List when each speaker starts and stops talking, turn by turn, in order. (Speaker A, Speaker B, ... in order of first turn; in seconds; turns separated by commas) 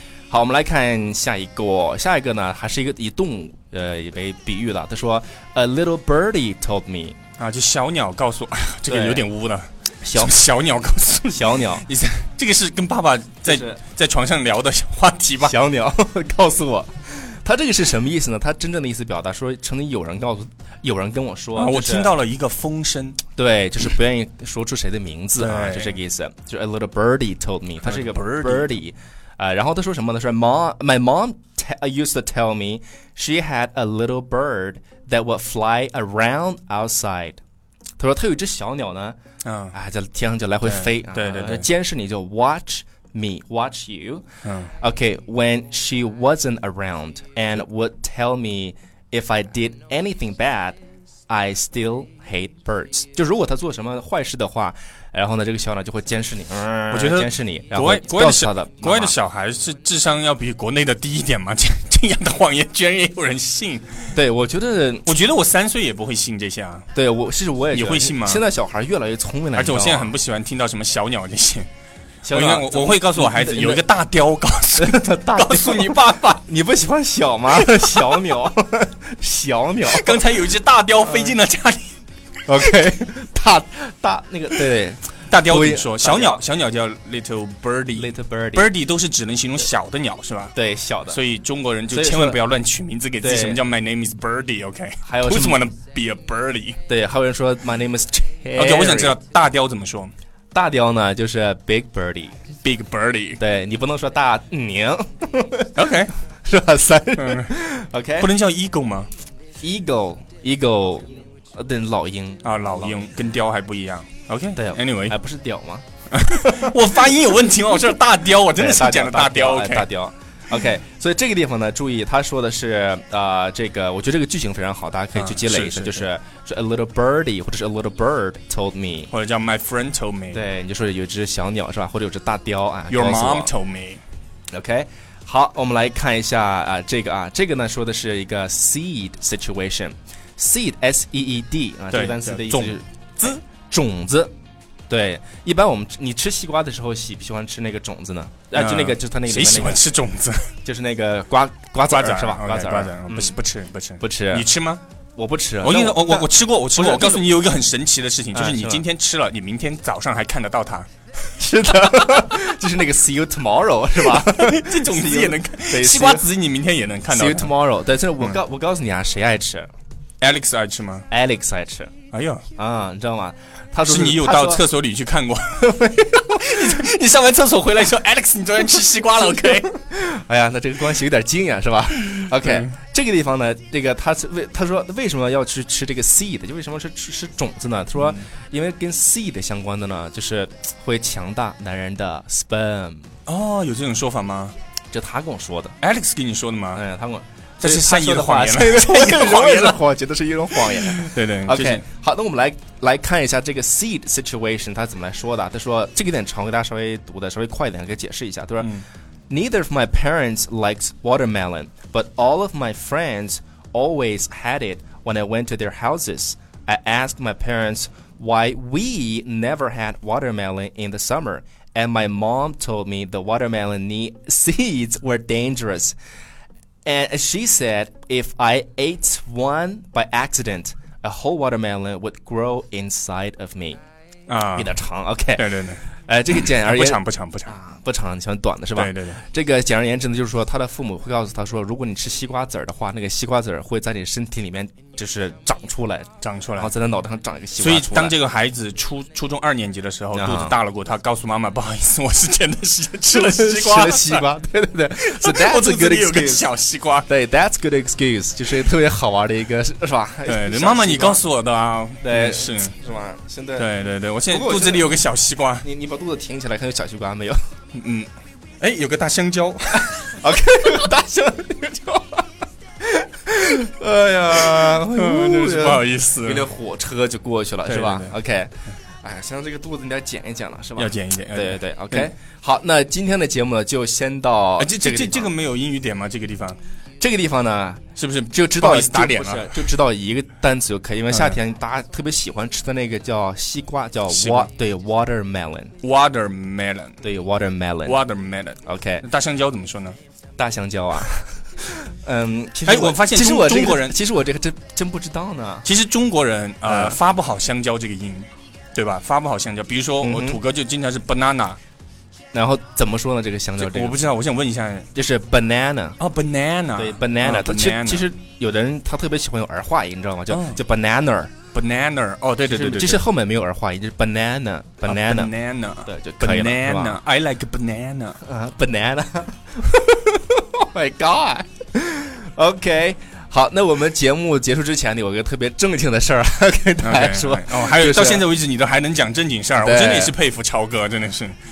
Speaker A: 0.3-7.2, Speaker B: 7.4-15.6, Speaker A: 8.9-9.3, Speaker A: 10.0-10.3, Speaker A: 11.3-11.9, Speaker A: 13.4-13.8, Speaker A: 15.4-22.1, Speaker B: 21.6-23.2, Speaker A: 23.4-37.4, Speaker B: 25.4-26.0, Speaker B: 27.8-28.8, Speaker A: 38.0-39.1, Speaker B: 39.4-39.7, Speaker A: 39.7-44.2, Speaker B: 40.6-41.7, Speaker B: 44.4-44.7, Speaker A: 44.8-50.8, Speaker A: 51.3-59.1, Speaker B: 56.9-64.1, Speaker A: 64.1-65.1, Speaker B: 65.0-66.9, Speaker A: 66.9-70.2, Speaker B: 67.7-68.4, Speaker B: 69.5-71.7, Speaker A: 72.2-73.9, Speaker B: 72.3-76.4, Speaker A: 74.8-80.2, Speaker B: 79.8-82.0, Speaker A: 81.0-81.3, Speaker A: 82.5-86.4, Speaker B: 85.3-90.5, Speaker A: 88.0-88.7, Speaker A: 90.5-91.2, Speaker B: 91.1-96.8, Speaker A: 91.9-92.4, Speaker A: 93.2-93.6, Speaker A: 95.0-95.6, Speaker A: 96.9-99.2, Speaker B: 98.5-100.1, Speaker A: 100.5-102.4, Speaker B: 102.6-103.4, Speaker A: 103.4-105.9, Speaker B: 105.7-106.1, Speaker A: 106.4-108.3, Speaker B: 107.2-107.5, Speaker B: 108.2-109.1, Speaker A: 109.6-113.0, Speaker B: 112.4-115.2, Speaker A: 114.5-115.8, Speaker B: 116.1-119.9, Speaker A: 116.4-116.7, Speaker A: 118.5-129.1, Speaker B: 125.1-126.1, Speaker B: 129.1-130.5, Speaker A: 130.3-133.5, Speaker B: 132.9-134.0, Speaker A: 134.5-144.3, Speaker B: 141.9-143.4, Speaker A: 144.9-149.8, Speaker B: 148.5-150.5, Speaker A: 150.6-153.4, Speaker B: 151.9-154.8, Speaker A: 154.0-154.5, Speaker A: 155.2-157.3, Speaker B: 155.6-160.9, Speaker A: 158.3-158.8, Speaker A: 161.4-166.3, Speaker B: 163.9-167.5, Speaker A: 167.1-169.7, Speaker B: 170.2-171.1, Speaker A: 171.1-171.9, Speaker B: 172.1-172.5, Speaker A: 172.6-174.6, Speaker B: 173.8-179.7, Speaker A: 175.6-176.8, Speaker A: 179.6-193.1, Speaker B: 182.1-182.8, Speaker B: 188.0-188.3, Speaker B: 193.2-194.5, Speaker A: 194.9-195.7, Speaker B: 195.8-196.8, Speaker A: 196.7-208.7, Speaker B: 197.6-199.8, Speaker B: 200.5-201.9, Speaker A: 209.3-225.9, Speaker A: 226.8-233.8, Speaker B: 234.3-234.8, Speaker A: 234.5-248.2, Speaker B: 235.3-235.8, Speaker B: 236.4-237.6, Speaker B: 238.7-239.2, Speaker B: 246.2-246.7, Speaker B: 247.6-254.3, Speaker A: 250.1-250.5, Speaker A: 253.1-256.5, Speaker B: 255.0-257.1, Speaker A: 257.1-261.2, Speaker B: 260.2-262.8, Speaker A: 262.0-263.7, Speaker B: 263.6-265.7, Speaker A: 264.3-265.0, Speaker A: 265.6-267.4, Speaker B: 267.7-270.1, Speaker A: 269.9-272.2, Speaker A: 272.8-278.5, Speaker B: 274.4-276.5, Speaker B: 277.6-278.1, Speaker A: 279.0-285.3, Speaker B: 280.8-282.1, Speaker B: 284.6-286.6, Speaker A: 287.0-295.7, Speaker B: 287.9-289.6, Speaker B: 291.1-291.4, Speaker B: 294.1-294.5, Speaker B: 295.8-297.0, Speaker A: 297.0-298.0, Speaker B: 297.8-300.0, Speaker A: 298.6-299.1, Speaker A: 300.4-305.7, Speaker B: 302.6-304.0, Speaker B: 305.6-311.6, Speaker A: 306.6-307.0, Speaker A: 310.0-310.4, Speaker A: 312.3-314.0, Speaker B: 313.6-314.9, Speaker A: 314.9-316.0, Speaker B: 316.0-318.1, Speaker A: 316.7-321.3, Speaker B: 320.3-320.6, Speaker B: 321.5-323.0, Speaker A: 322.4-325.3, Speaker B: 324.8-328.2, Speaker A: 325.8-327.0, Speaker A: 328.2-338.3, Speaker B: 336.8-341.4, Speaker A: 339.6-340.2